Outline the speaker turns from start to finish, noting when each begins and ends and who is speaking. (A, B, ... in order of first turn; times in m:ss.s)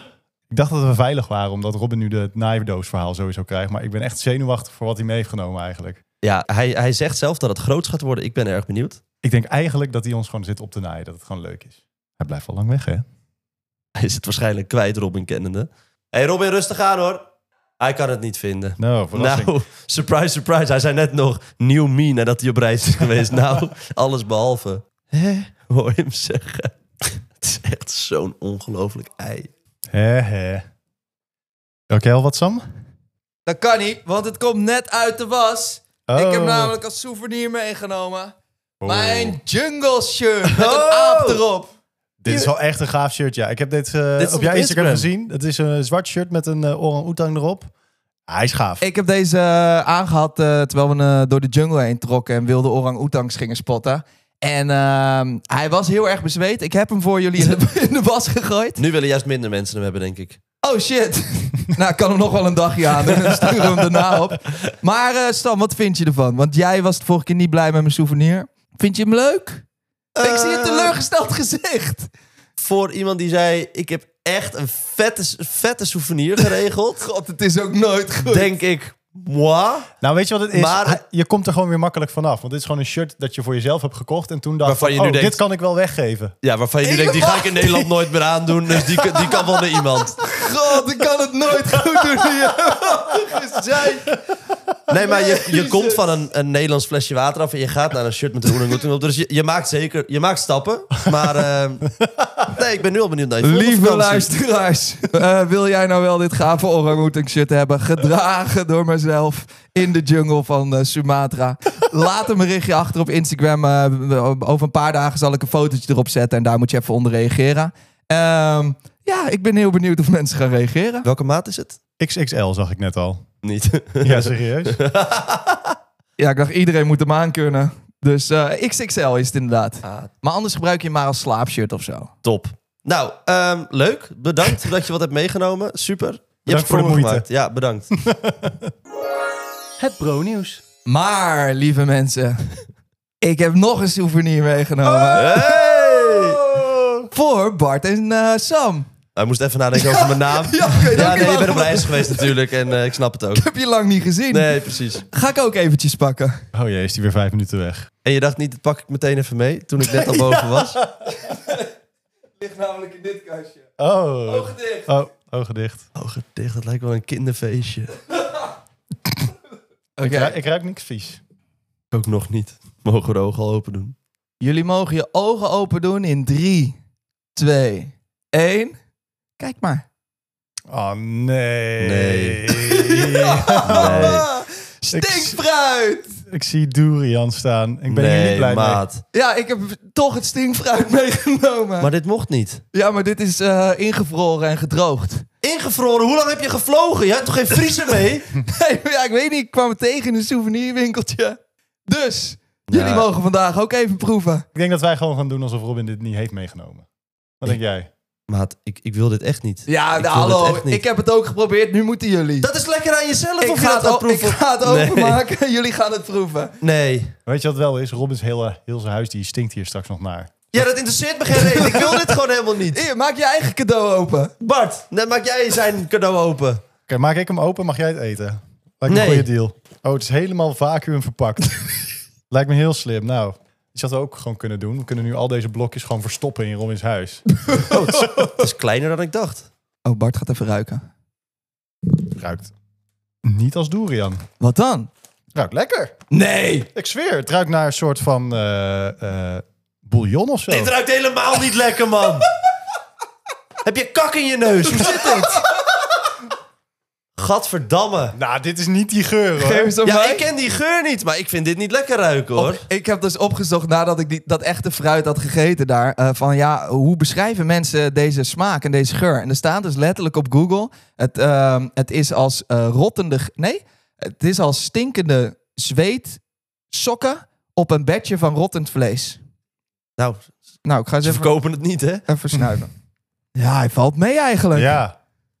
0:00.5-0:06.0 A
0:06.2-0:09.0 B
0:09.2-0:13.0 A
0:14.0-0:17.2 B
0:17.8-0:29.5 B
0:18.8-0:19.5 A
0:29.9-0:30.6 A
0:31.9-0:32.6 A
0:33.4-0:38.3 C
0:36.1-0:36.7 A
0:38.8-0:39.4 A
0:38.8-0:41.7 C
0:40.5-0:41.4 B
0:42.2-0:47.7 A
0:44.2-0:45.1 B
0:48.3-0:48.8 A
0:48.8-0:58.8 C
0:58.8-1:00.4 B
1:00.6-1:09.6 C
1:10.1-1:11.0 B
1:10.2-1:12.1 C
1:12.6-1:17.0 B
1:17.0-1:18.5 C
1:18.2-1:19.9 B
1:20.0-1:26.3 A
1:20.5-1:21.0 B
1:24.6-1:25.4 B
1:26.4-1:30.2 B
1:26.8-1:27.9 C
1:28.7-1:29.4 C
1:30.1-1:34.2 C
1:34.9-1:41.9 B
1:34.9-1:36.0 C
1:42.4-1:44.3 B
1:43.4-2:01.1 C
2:01.0-2:01.8 B
2:02.0-2:03.2 A
2:03.4-2:05.8 B
2:04.0-2:04.8 A
2:06.2-2:12.1 C
2:09.8-2:10.1 B
2:12.2-2:17.9 B
2:16.5-2:17.2 A
2:17.9-2:18.7 A
2:19.8-2:20.6 A
2:20.8-2:22.6 C
2:23.2-2:25.4 C
2:24.9-2:27.1 A
2:25.1-2:26.4 B
2:27.1-2:28.9 C
2:29.2-2:33.5 B
2:29.8-2:32.3 C
2:33.4-2:36.4 C
2:34.3-2:35.0 B
2:36.5-2:37.9 A
2:38.0-2:40.8 B
2:40.1-2:40.9 A
2:41.2-2:41.7 C
2:42.4-2:43.7 C
2:43.8-2:45.8 A
2:44.3-2:44.9 C
2:46.0-2:47.9 B
2:50.0-2:50.4 C
2:50.0-2:51.2 A
2:51.9-2:53.9 B
2:54.4-2:56.8 C
2:57.3-2:58.8 C
2:59.4-2:59.8 C
3:00.7-3:04.2 A
3:01.8-3:02.5 B
3:02.6-3:06.2 C
3:03.7-3:04.2 B
3:04.9-3:05.4 A
3:06.3-3:08.8 A
3:07.9-3:09.0 B
3:09.1-3:11.9 C
3:11.8-3:12.6 B
3:12.7-3:15.2 C
3:15.4-3:18.2 B
3:18.4-3:24.4 C
3:22.7-3:23.1 B
3:24.5-3:26.8 A
3:27.4-3:27.9 A
3:28.3-3:30.8 B
3:29.7-3:32.5 C
3:32.4-3:35.2 B
3:33.4-3:36.5 C
3:36.6-3:37.1 B
3:37.2-3:40.5 A
3:40.5-3:42.8 B
3:41.4-3:42.1 C
3:42.7-3:44.3 C
3:44.4-3:46.6 B
3:46.9-3:57.2 A
3:48.9-3:49.3 B
3:57.7-3:59.5 B
3:59.8-4:00.8 C
4:02.0-4:02.5 A
4:03.2-4:04.2 A
4:04.4-4:04.9 C
4:05.3-4:06.0 A
4:06.1-4:06.7 C
4:06.7-4:10.7 A
4:10.5-4:12.3 B
4:13.6-4:15.4 B
4:14.8-4:15.2 A
4:14.8-4:15.4 C
4:17.2-4:18.1 B
4:18.1-4:19.7 A
4:19.4-4:20.2 C
4:19.8-4:22.6 B
4:22.4-4:39.2 C
4:40.0-4:40.3 B
4:40.6-4:41.3 C
4:41.0-4:42.0 B
4:42.1-4:42.7 C
4:43.3-4:44.8 C
4:44.5-4:45.0 A